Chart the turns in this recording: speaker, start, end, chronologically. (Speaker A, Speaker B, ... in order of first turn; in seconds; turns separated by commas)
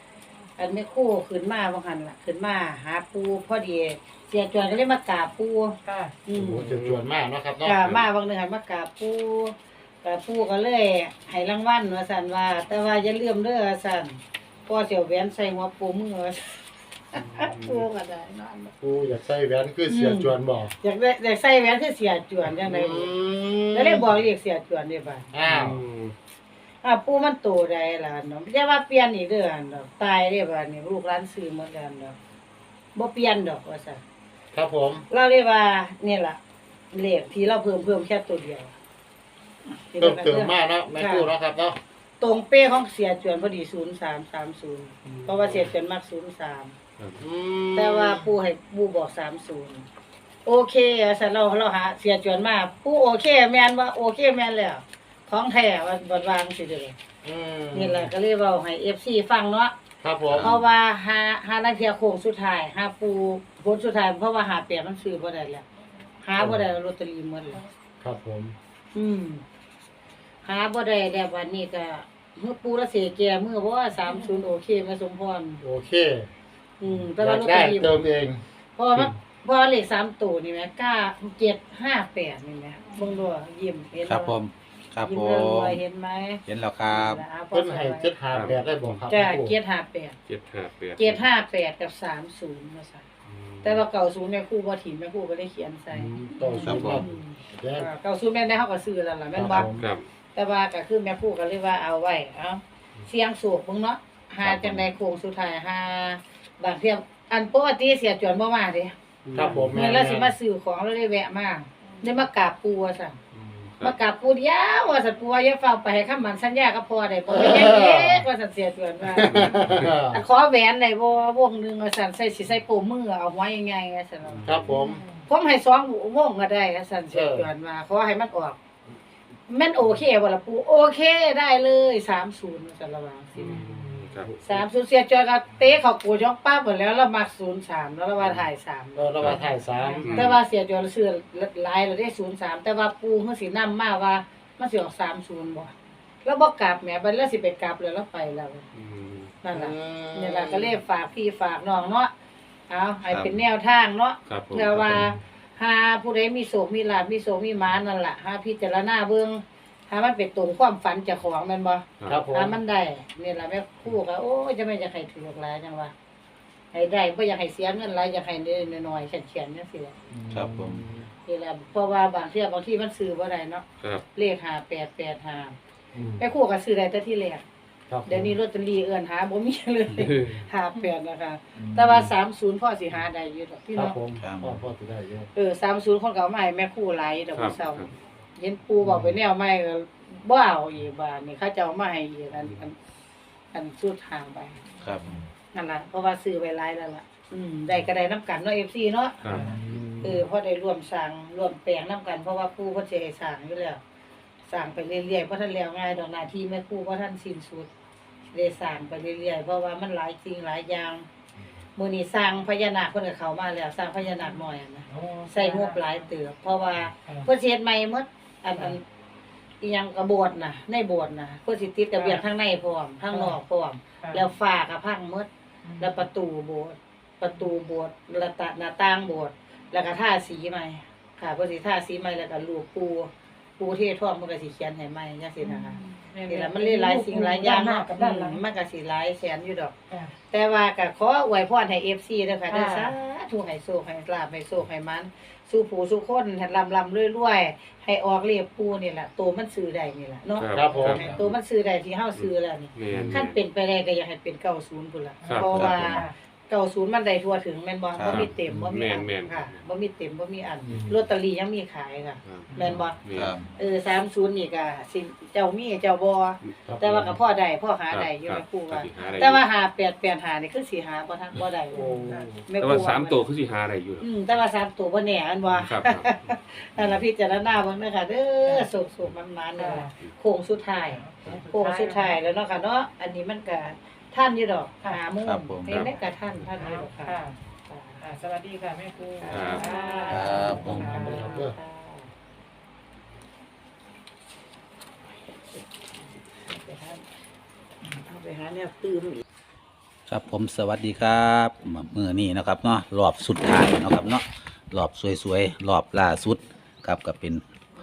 Speaker A: 0.6-6.6, Speaker B: 5.8-6.2, Speaker C: 6.3-7.8, Speaker D: 6.6-7.1, Speaker A: 7.6-18.7, Speaker D: 17.1-17.9, Speaker C: 18.8-20.7, Speaker A: 19.9-23.1, Speaker C: 22.5-24.1, Speaker A: 23.7-25.3, Speaker C: 25.3-25.8, Speaker D: 25.4-26.1, Speaker A: 26.8-32.2, Speaker A: 32.9-34.0, Speaker C: 34.5-35.0, Speaker A: 35.1-36.4, Speaker A: 36.9-38.8, Speaker A: 39.7-41.3, Speaker C: 40.0-41.8, Speaker A: 42.2-46.8, Speaker D: 45.0-45.7, Speaker D: 47.0-47.2, Speaker C: 47.2-48.3, Speaker A: 47.7-49.9, Speaker A: 50.5-57.0, Speaker C: 57.2-58.1, Speaker A: 57.7-59.7, Speaker C: 60.0-60.5, Speaker E: 60.3-60.6, Speaker A: 60.3-65.7, Speaker A: 66.2-67.6, Speaker C: 68.0-68.6, Speaker A: 69.0-69.4, Speaker A: 70.4-75.6, Speaker C: 75.6-76.3, Speaker A: 76.8-77.9, Speaker C: 77.0-78.4, Speaker A: 78.8-84.4, Speaker E: 84.0-85.8, Speaker A: 85.0-88.1, Speaker E: 86.5-87.2, Speaker C: 87.5-89.5, Speaker D: 88.3-89.0, Speaker A: 89.1-90.2, Speaker D: 90.3-91.2, Speaker A: 91.0-93.1, Speaker D: 93.2-93.8, Speaker A: 93.6-99.7, Speaker C: 95.9-97.9, Speaker E: 96.6-97.0, Speaker C: 99.3-99.8, Speaker D: 99.6-100.1, Speaker A: 100.3-108.9, Speaker E: 104.4-104.9, Speaker D: 109.2-109.8, Speaker C: 109.3-110.3, Speaker A: 109.5-113.2, Speaker D: 113.3-114.0, Speaker A: 113.8-124.5, Speaker C: 117.3-118.2, Speaker C: 119.1-120.2, Speaker D: 119.2-119.9, Speaker D: 124.2-124.7, Speaker C: 124.4-125.0, Speaker B: 124.7-125.2, Speaker A: 125.2-128.6, Speaker C: 127.1-127.5, Speaker A: 129.5-133.6, Speaker D: 133.3-134.3, Speaker C: 134.2-134.6, Speaker A: 134.4-139.3, Speaker C: 138.9-140.3, Speaker B: 139.8-140.0, Speaker D: 140.0-140.4, Speaker A: 140.1-145.7, Speaker A: 146.2-148.7, Speaker D: 148.7-149.3, Speaker A: 149.4-152.1, Speaker C: 149.5-150.8, Speaker A: 152.7-165.9, Speaker E: 153.1-153.4, Speaker D: 154.3-155.1, Speaker D: 162.0-162.2, Speaker C: 162.1-162.6, Speaker A: 166.7-169.9, Speaker C: 170.1-171.1, Speaker E: 170.3-170.8, Speaker A: 171.2-173.6, Speaker A: 174.2-175.6, Speaker C: 175.9-176.2, Speaker A: 176.2-177.4, Speaker C: 177.9-178.3, Speaker A: 178.1-184.0, Speaker D: 180.1-180.4, Speaker C: 181.6-182.1, Speaker C: 183.7-185.3, Speaker E: 184.2-184.7, Speaker A: 185.3-192.8, Speaker D: 187.3-187.9, Speaker C: 188.8-189.1, Speaker A: 193.5-194.6, Speaker E: 194.8-195.1, Speaker A: 195.5-199.2, Speaker D: 199.2-199.5, Speaker B: 199.3-199.6, Speaker C: 199.4-200.2, Speaker A: 200.0-203.8, Speaker A: 204.5-207.7, Speaker A: 208.3-211.1, Speaker A: 211.8-218.8, Speaker B: 214.9-216.0, Speaker A: 219.6-225.3, Speaker B: 222.0-222.2, Speaker B: 223.1-223.4, Speaker B: 225.7-226.1, Speaker A: 225.8-239.7, Speaker B: 235.4-238.4, Speaker B: 239.9-240.2, Speaker A: 240.3-263.0, Speaker B: 242.5-242.9, Speaker D: 250.4-251.1, Speaker C: 250.5-251.0, Speaker D: 252.1-253.4, Speaker C: 252.9-253.2, Speaker B: 255.2-256.1, Speaker D: 255.2-255.7, Speaker E: 255.4-256.1, Speaker E: 257.9-258.3, Speaker D: 258.1-259.6, Speaker C: 260.7-261.0, Speaker D: 262.2-263.4, Speaker E: 263.1-263.4, Speaker A: 263.6-273.3, Speaker C: 266.7-267.2, Speaker D: 267.9-269.4, Speaker C: 271.8-272.4, Speaker B: 271.9-272.2, Speaker D: 272.6-274.1, Speaker A: 274.0-288.0, Speaker D: 275.5-276.2, Speaker B: 279.6-279.9, Speaker B: 280.9-282.2, Speaker E: 285.2-285.9, Speaker D: 285.7-285.9, Speaker B: 286.6-287.4, Speaker B: 288.0-291.4, Speaker A: 289.2-292.1, Speaker D: 289.3-289.7, Speaker E: 290.1-290.8, Speaker C: 290.4-291.6, Speaker A: 296.2-297.1, Speaker A: 297.8-299.2, Speaker E: 300.1-307.4